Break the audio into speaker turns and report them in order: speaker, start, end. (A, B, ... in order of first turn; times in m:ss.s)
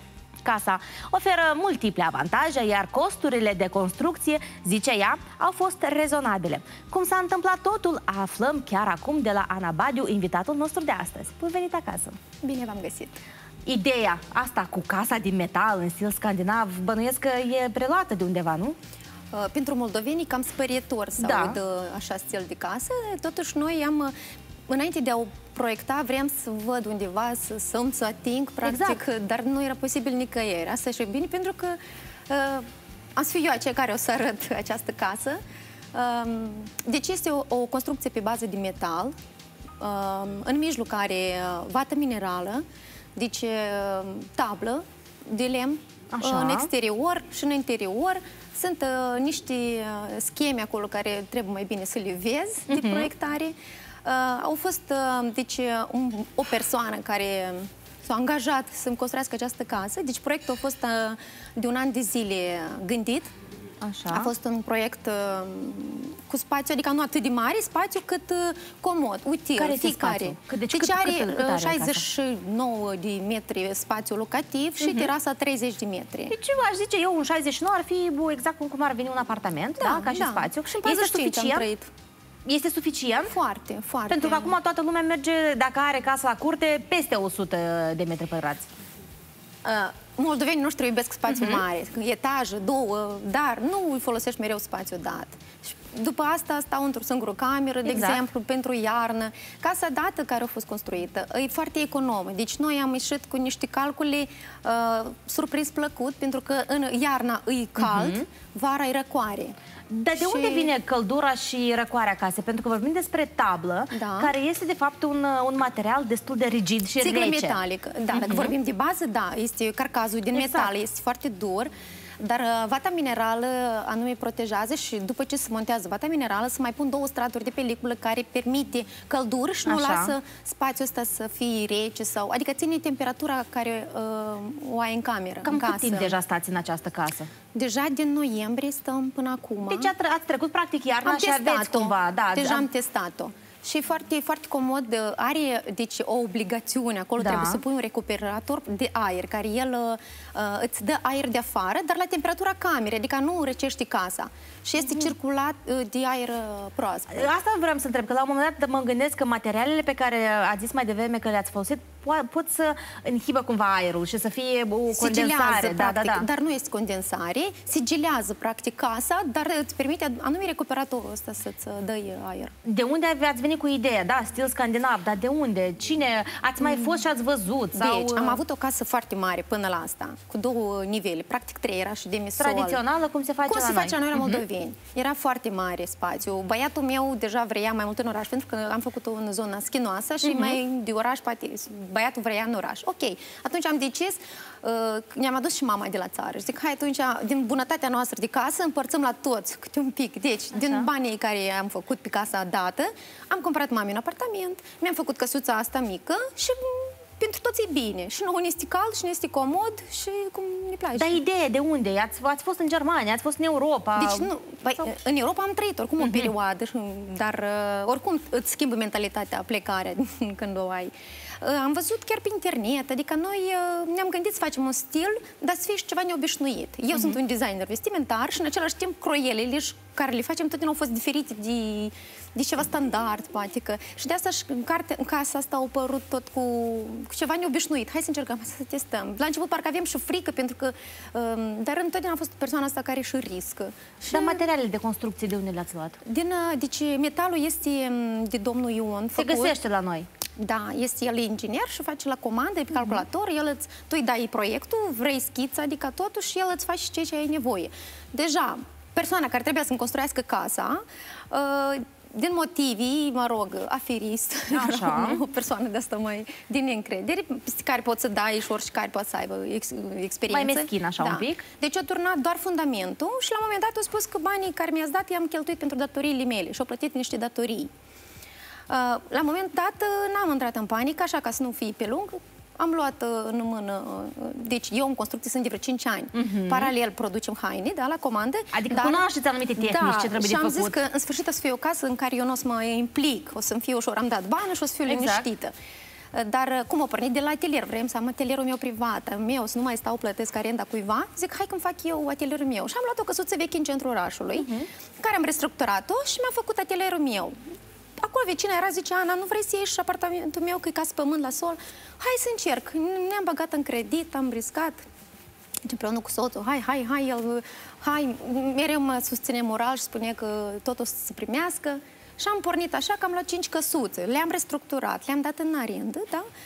0:00.4-0:12.2 A
0:12.4-0:13.2 B
0:13.7-0:18.8 A
0:19.3-0:24.1 B
0:21.2-0:21.6 A
0:24.7-0:35.4 B
0:28.6-0:29.0 A
0:35.9-0:39.1 B
0:39.8-0:42.6 B
0:43.2-1:03.3 B
0:46.1-0:46.7 A
0:52.7-0:53.1 A
1:03.8-1:04.3 A
1:04.1-1:16.3 B
1:09.6-1:12.0 A
1:14.8-1:15.1 A
1:16.3-1:21.6 A
1:19.8-1:21.9 B
1:22.5-1:23.3 A
1:23.3-1:24.6 B
1:24.1-1:28.7 A
1:29.6-1:49.5 B
1:31.3-1:31.6 A
1:37.8-1:38.2 A
1:47.8-1:48.2 A
1:49.9-1:57.6 A
1:50.2-1:50.7 B
1:53.9-1:54.3 B
1:57.0-2:16.2 B
1:58.1-1:58.5 A
2:00.3-2:00.7 A
2:09.7-2:10.1 A
2:15.4-2:17.3 A
2:17.5-2:19.9 B
2:19.6-2:22.6 A
2:21.0-2:37.3 B
2:27.2-2:27.6 A
2:34.8-2:35.1 A
2:37.1-2:46.2 A
2:44.9-2:52.5 B
2:52.6-2:58.4 A
2:56.6-2:56.9 B
2:57.7-3:02.8 B
3:02.4-3:04.4 A
3:03.4-3:31.2 B
3:10.2-3:10.6 A
3:20.6-3:20.9 A
3:30.9-3:34.3 A
3:34.0-4:04.4 B
3:36.0-3:36.3 A
3:46.9-3:47.2 A
4:04.1-4:06.0 A
4:06.0-4:09.6 B
4:09.2-4:10.1 A
4:10.4-4:37.7 B
4:24.5-4:25.2 A
4:30.3-4:31.4 A
4:38.7-4:49.0 B
4:46.1-4:46.7 A
4:48.5-4:50.8 A
4:49.6-4:55.5 B
4:54.9-4:55.2 A
4:56.1-5:07.4 B
5:04.4-5:04.7 A
5:08.0-5:14.8 B
5:15.6-5:26.2 B